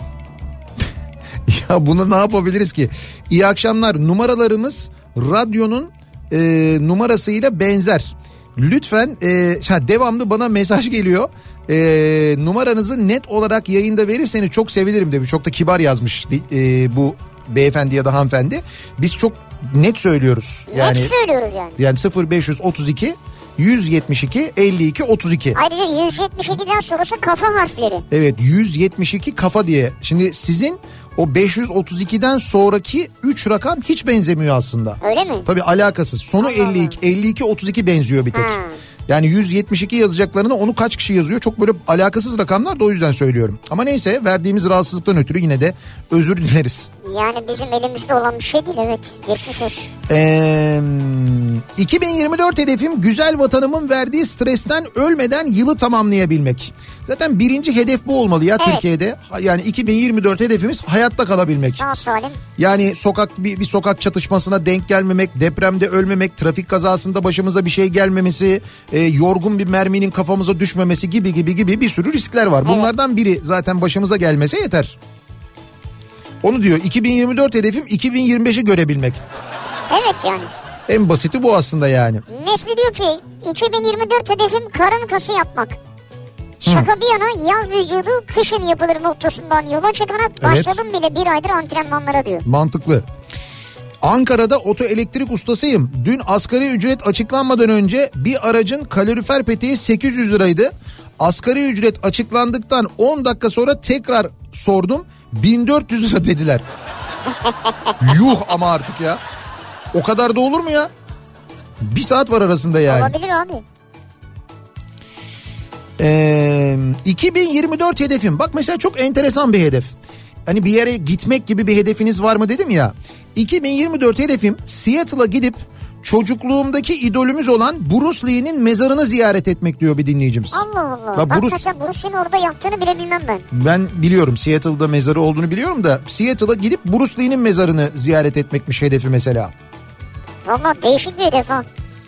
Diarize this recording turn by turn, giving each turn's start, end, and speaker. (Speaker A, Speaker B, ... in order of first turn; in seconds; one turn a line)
Speaker A: 1.5-21.1
Speaker B: 20.7-21.8
Speaker A: 21.8-25.6
Speaker B: 25.5-28.0
Speaker A: 28.1-38.6
Speaker B: 35.0-35.5
Speaker B: 36.4-36.9
Speaker B: 38.3-38.8
Speaker A: 39.1-46.9
Speaker B: 47.0-49.9
Speaker A: 50.1-61.8
Speaker B: 61.6-62.4
Speaker A: 62.6-75.0
Speaker A: 76.4-79.2
Speaker B: 79.9-80.5
Speaker A: 80.9-82.2
Speaker B: 82.3-85.8
Speaker A: 86.6-86.9
Speaker B: 86.6-92.4
Speaker A: 90.4-90.8
Speaker A: 92.4-93.0
Speaker A: 94.0-106.6
Speaker A: 108.0-109.2
Speaker A: 109.9-110.9
Speaker A: 111.8-113.1
Speaker B: 112.9-113.6
Speaker A: 116.0-119.9
Speaker A: 120.5-130.6
Speaker B: 130.5-133.4
Speaker A: 131.1-131.6
Speaker A: 133.5-139.5
Speaker B: 140.4-141.7